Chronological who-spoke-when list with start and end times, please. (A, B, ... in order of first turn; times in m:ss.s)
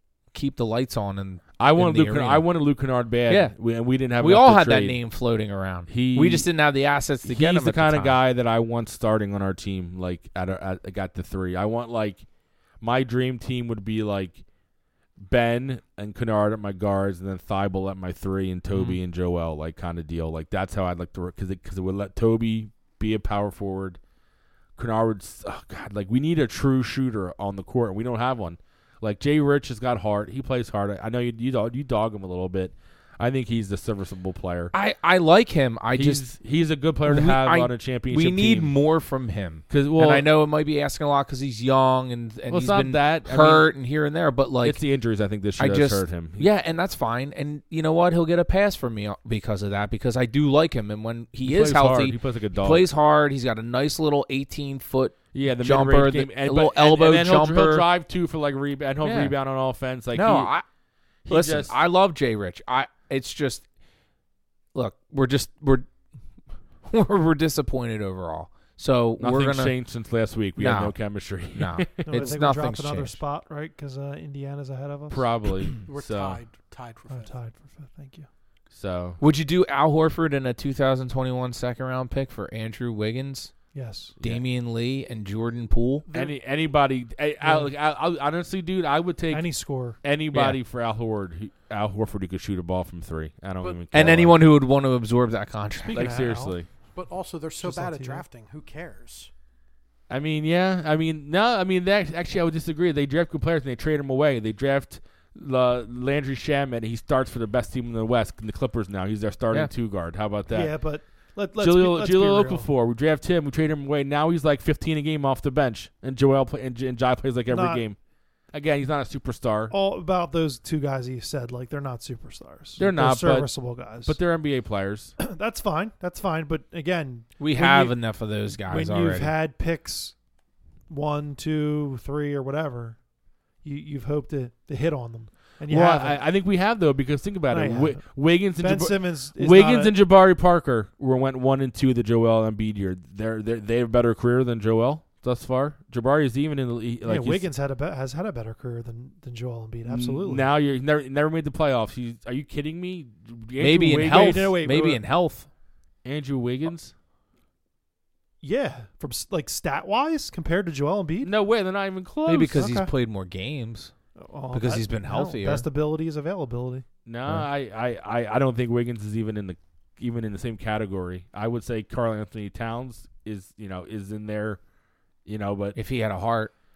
0:00.3-0:02.4 A
0:01.6-0:05.0 B
0:03.3-0:03.5 A
0:04.2-0:08.2 A
0:05.9-0:06.5 B
0:07.2-0:12.2 B
0:12.8-0:14.4 B
0:15.2-0:24.0 B
0:18.7-0:19.0 A
0:24.8-0:34.7 B
0:34.7-0:36.3 A
0:35.9-0:38.7 B
0:37.0-0:44.8 A
0:39.7-0:40.3 B
0:42.5-0:43.7 B
0:44.6-0:46.5 B
0:45.6-0:57.9 A
0:51.4-0:52.9 B
0:55.3-1:00.5 B
0:59.0-0:59.3 A
1:00.1-1:00.6 A
1:01.2-1:01.8 B
1:01.3-1:03.6 A
1:04.7-1:05.9 A
1:06.8-1:09.7 A
1:09.2-1:12.3 B
1:10.6-1:11.0 A
1:11.5-1:13.2 A
1:12.0-1:15.7 C
1:15.1-1:16.4 B
1:15.9-1:17.3 D
1:17.1-1:18.3 C
1:18.7-1:19.2 B
1:19.2-1:23.5 A
1:23.7-1:24.2 C
1:24.2-1:26.0 A
1:26.1-1:34.4 B
1:27.4-1:27.7 C
1:29.3-1:30.0 C
1:30.3-1:30.6 A
1:33.6-1:34.2 D
1:33.9-1:36.2 A
1:35.9-1:36.7 B
1:35.9-1:36.6 C
1:36.9-1:39.3 D
1:37.6-1:38.2 C
1:40.1-1:50.7 B
1:50.5-1:52.7 C
1:51.6-1:58.0 B
1:57.5-1:57.8 C
1:58.5-1:59.7 B
1:59.7-2:04.2 C
2:02.8-2:05.1 B
2:05.2-2:08.0 C
2:07.4-2:09.3 A
2:08.6-2:10.2 C
2:10.9-2:13.0 C
2:13.6-2:16.2 C
2:15.7-2:27.4 B
2:17.5-2:19.9 C
2:27.0-2:30.5 C
2:29.8-2:34.5 B
2:33.6-2:35.5 A
2:34.1-2:35.0 C
2:36.0-2:36.9 B
2:38.4-2:41.3 C
2:41.2-2:42.7 B
2:42.2-2:43.9 A
2:42.5-2:42.9 C
2:44.2-2:46.8 C
2:44.5-2:45.7 A
2:47.0-2:54.6 B
2:55.2-2:55.8 B
2:55.7-2:56.5 A